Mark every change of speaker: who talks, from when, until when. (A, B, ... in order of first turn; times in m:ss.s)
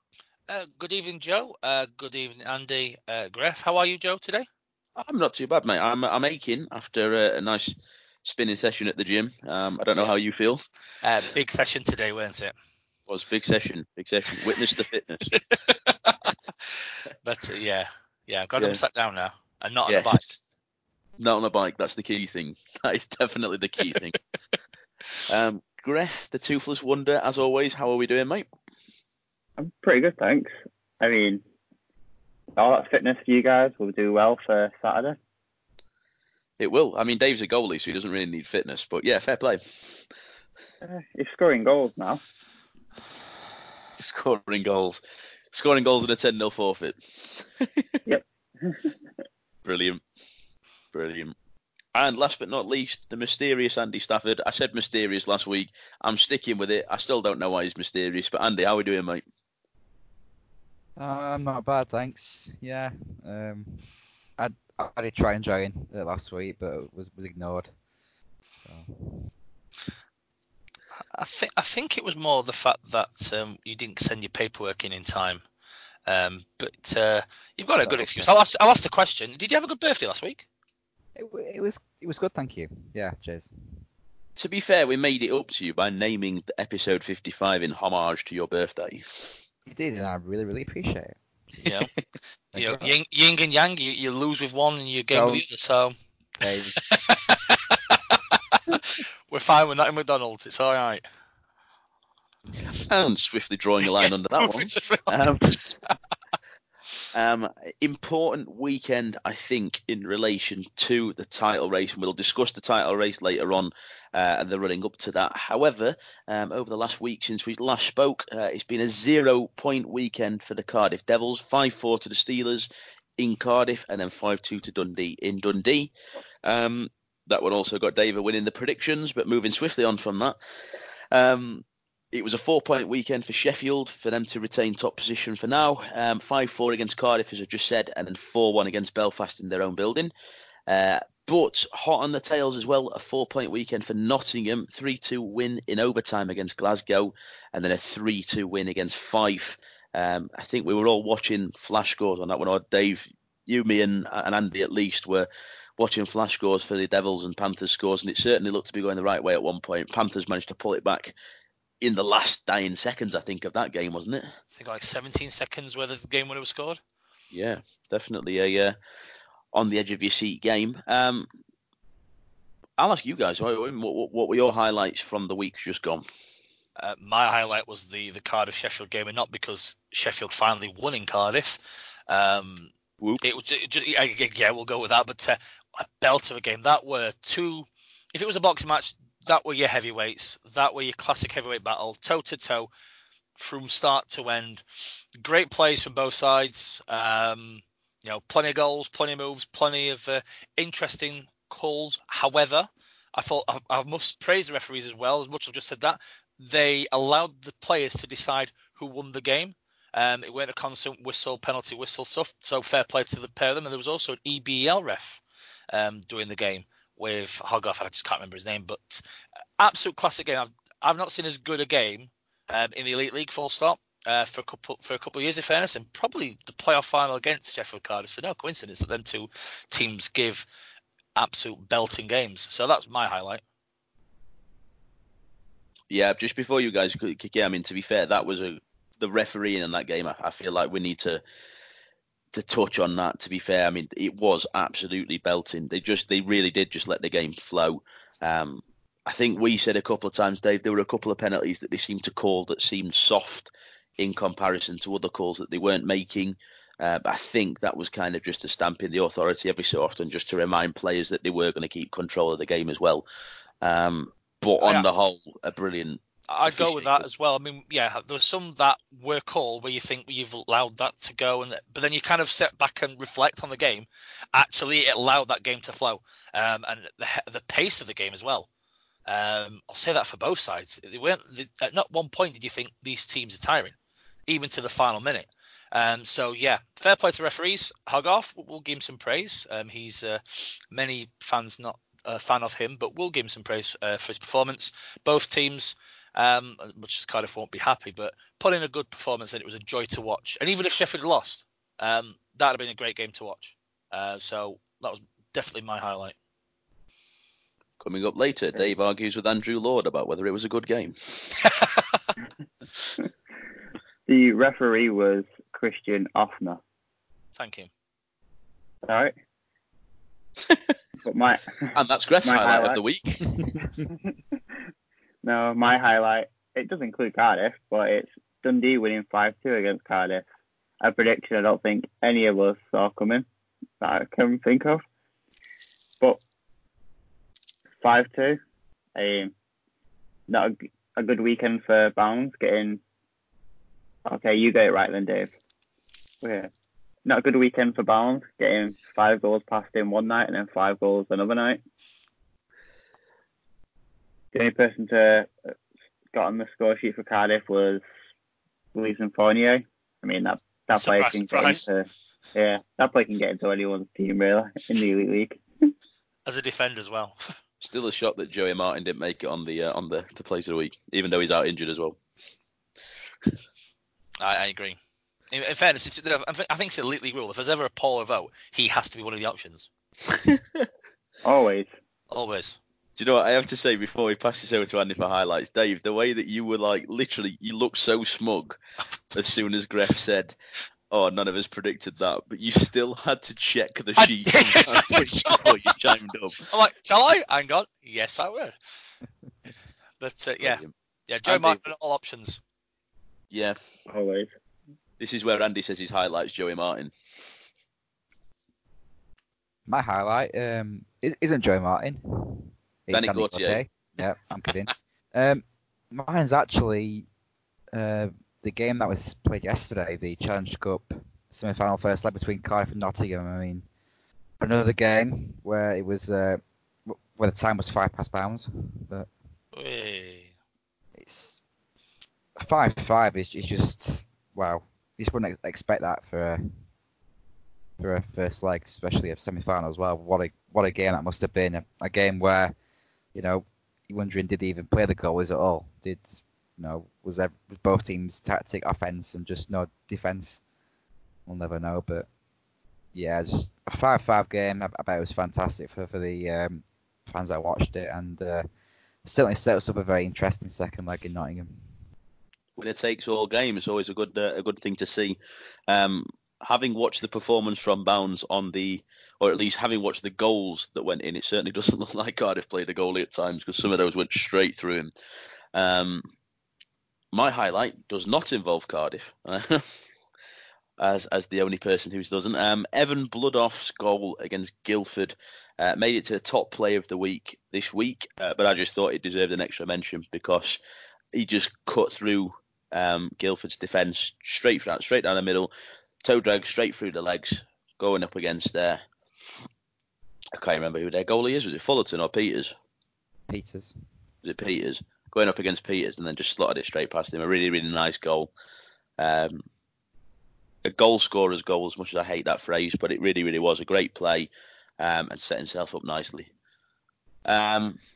0:00.5-0:04.5 A
0:05.0-0:10.6 B
0:11.0-0:12.5 A
0:13.1-0:15.3 B
0:15.3-0:20.4 A
0:19.9-0:20.5 B
0:21.2-0:24.2 B
0:25.3-0:28.5 B
0:29.6-0:31.4 C
0:32.6-0:35.2 C
0:36.6-0:40.0 B
0:40.8-0:42.2 C
0:44.0-0:48.0 B
0:48.1-0:48.9 C
0:49.6-0:50.0 B
0:50.9-0:51.3 B
0:52.0-0:59.2 B
1:01.0-1:07.7 D
1:08.6-1:09.3 D
1:11.1-1:15.4 A
1:16.1-1:20.4 A
1:17.8-1:18.3 D
1:21.2-1:23.8 D
1:24.4-1:29.4 B
1:29.7-1:31.2 D
1:31.6-1:31.9 A
1:32.5-1:32.9 D
1:32.6-1:35.9 A
1:35.1-1:35.4 D
1:36.4-1:36.8 D
1:36.5-1:41.0 A
1:42.6-1:45.8 B
1:44.0-1:45.2 A
1:47.1-2:05.9 B
2:06.4-2:20.1 B
2:20.7-2:41.2 B
2:41.8-2:44.3 B
2:44.6-2:46.8 A
2:47.3-2:48.8 B
2:49.5-2:51.3 B
2:52.8-2:56.0 B
2:56.8-3:02.7 A
3:03.2-3:12.7 A
3:13.4-3:39.1 A
3:39.6-3:50.5 A
3:51.2-3:53.4 A
3:55.9-4:01.2 B
4:02.3-4:23.1 B
4:23.6-4:27.1 B
4:24.6-4:24.9 A
4:26.3-4:38.5 A
4:39.1-4:43.8 A
4:44.3-5:06.2 A
5:07.8-5:11.4 B
5:11.4-5:12.0 A
5:14.1-5:16.6 C
5:17.4-5:17.7 A
5:18.8-5:19.1 C
5:20.5-5:20.8 B
5:21.0-5:22.8 C
5:21.7-5:23.4 B
5:25.2-5:30.2 C
5:30.8-5:33.3 C
5:33.8-5:34.8 C
5:37.8-5:38.4 C
5:39.0-5:39.3 C
5:40.3-5:42.8 C
5:44.1-5:45.3 C
5:46.2-5:46.5 C
5:47.0-5:51.6 C
5:54.3-5:55.3 C
5:56.1-5:57.8 C
5:58.8-6:05.7 C
6:00.8-6:01.6 A
6:06.3-6:07.2 A
6:07.6-6:12.0 B
6:14.2-6:14.8 A
6:15.3-6:19.7 A
6:20.1-6:20.7 B
6:21.2-6:21.7 C
6:22.1-6:22.6 A
6:23.0-6:28.6 B
6:29.1-6:30.4 B
6:30.9-6:36.5 B
6:34.0-6:35.8 A
6:36.5-6:38.9 A
6:40.0-6:42.4 A
6:40.4-6:40.7 B
6:41.2-6:41.6 B
6:43.3-6:43.6 B
6:43.9-6:44.3 C
6:45.0-6:46.9 B
6:49.7-6:57.1 D
6:52.9-6:53.6 B
6:57.7-7:03.7 D
7:04.4-7:09.1 D
7:09.5-7:10.3 A
7:11.0-7:11.4 D
7:12.4-7:16.5 D
7:17.8-7:22.6 D
7:23.1-7:26.1 D
7:26.6-7:30.4 D
7:31.3-7:32.1 D
7:32.9-7:38.5 D
7:39.0-7:41.7 D
7:42.6-7:54.9 B
7:55.5-7:56.1 B
7:57.1-7:59.8 B
8:00.8-8:10.6 B
8:11.1-8:15.5 B
8:16.0-8:18.8 B
8:20.4-8:22.5 B
8:23.3-8:23.8 D
8:24.2-8:28.3 B
8:29.0-8:29.5 B
8:30.6-8:34.3 B
8:34.8-8:36.3 B
8:37.3-8:37.8 B